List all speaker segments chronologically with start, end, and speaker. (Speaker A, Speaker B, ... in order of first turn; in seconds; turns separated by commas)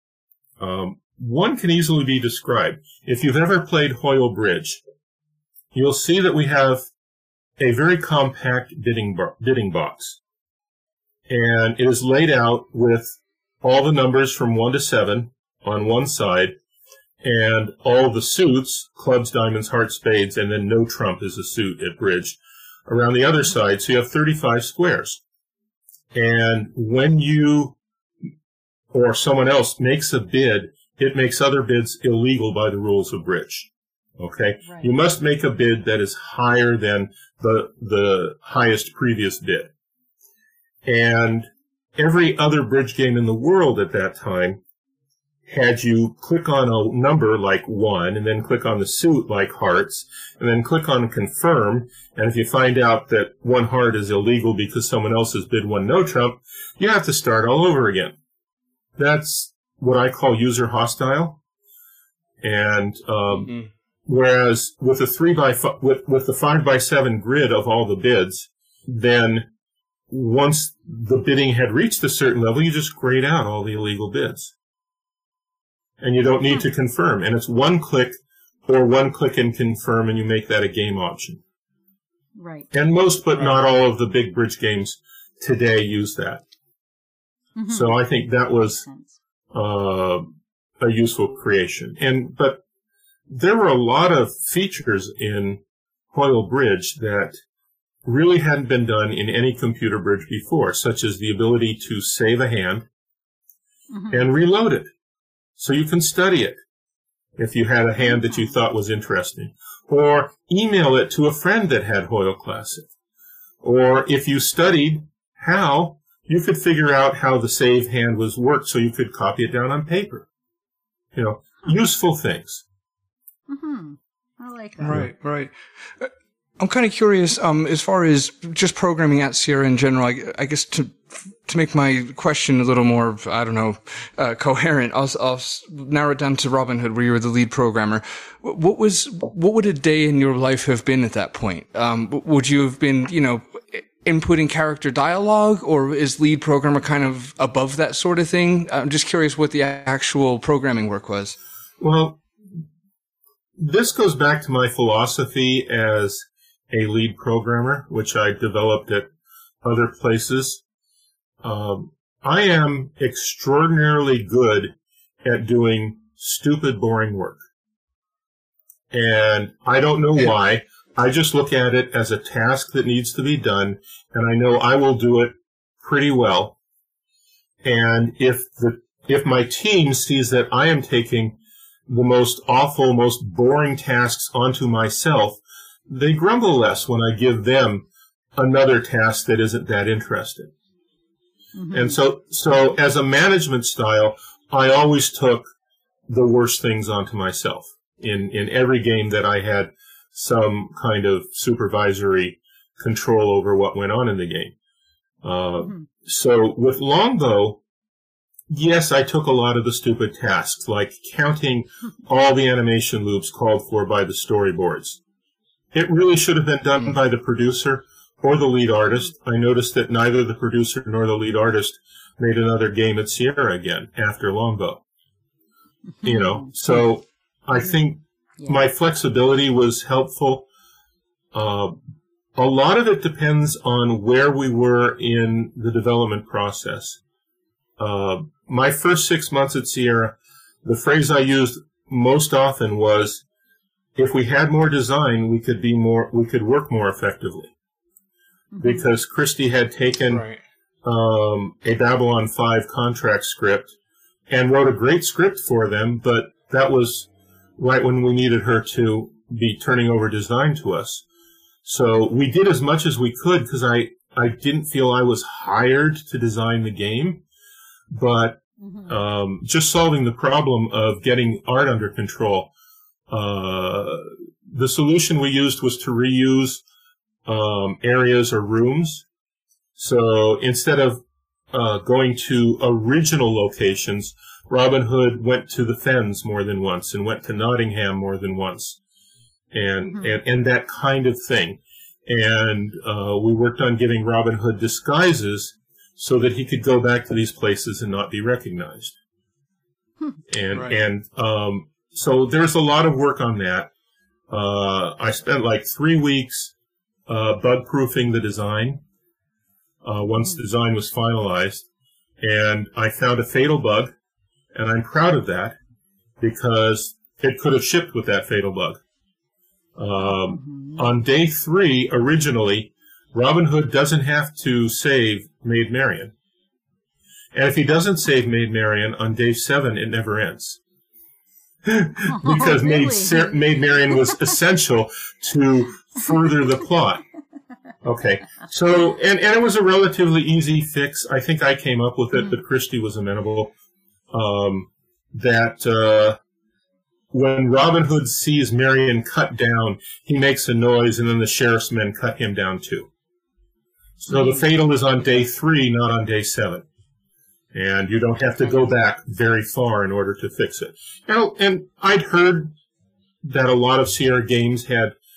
Speaker A: 0.6-4.8, Speaker A: 5.7-6.8, Speaker A: 7.6-10.2, Speaker A: 11.3-16.6, Speaker A: 17.2-25.2, Speaker A: 26.1-27.8, Speaker A: 28.9-39.7, Speaker A: 40.8-44.6, Speaker A: 45.5-58.1, Speaker A: 59.0-61.4, Speaker A: 62.4-69.5, Speaker B: 63.4-63.7, Speaker A: 70.1-74.5, Speaker A: 76.0-81.4, Speaker C: 82.4-82.7, Speaker A: 82.7-86.4, Speaker C: 87.5-88.0, Speaker A: 87.7-88.8, Speaker C: 88.8-89.2, Speaker A: 89.5-92.6, Speaker A: 93.3-97.4, Speaker A: 98.0-102.9, Speaker C: 103.9-104.3, Speaker A: 104.1-104.9, Speaker A: 105.6-106.6, Speaker A: 107.4-112.9, Speaker C: 108.0-108.5, Speaker A: 113.6-120.3, Speaker A: 121.1-122.6, Speaker C: 123.5-125.0, Speaker B: 124.8-151.4, Speaker A: 151.8-152.2, Speaker A: 153.6-159.1, Speaker A: 159.6-160.6, Speaker A: 161.4-167.4, Speaker A: 168.9-176.6, Speaker A: 177.6-190.5, Speaker C: 191.6-192.0, Speaker A: 191.7-195.5, Speaker A: 196.1-204.5, Speaker A: 205.2-207.6, Speaker A: 208.5-215.0, Speaker A: 215.7-224.8, Speaker C: 226.0-226.5, Speaker A: 226.0-230.5, Speaker A: 231.3-231.8, Speaker A: 232.3-237.0, Speaker A: 237.8-243.2, Speaker A: 243.9-247.5, Speaker C: 248.5-248.8, Speaker A: 248.6-250.2, Speaker B: 250.1-250.4, Speaker A: 250.8-253.7, Speaker A: 254.3-261.0, Speaker A: 261.6-267.2, Speaker A: 267.9-272.5, Speaker A: 273.1-276.6, Speaker A: 277.2-279.1, Speaker A: 279.8-288.8, Speaker A: 289.5-298.9, Speaker A: 300.3-303.7, Speaker A: 304.3-306.5, Speaker A: 307.1-308.8, Speaker A: 309.8-311.6, Speaker A: 312.2-313.9, Speaker A: 314.5-315.6, Speaker A: 316.2-318.8, Speaker A: 319.8-326.1, Speaker C: 320.1-320.8, Speaker A: 327.3-330.6, Speaker A: 331.6-337.0, Speaker C: 332.1-333.4, Speaker A: 337.8-343.5, Speaker A: 344.1-346.2, Speaker A: 347.1-352.9, Speaker A: 354.0-356.6, Speaker C: 354.1-354.4, Speaker A: 357.5-362.5, Speaker A: 363.2-364.9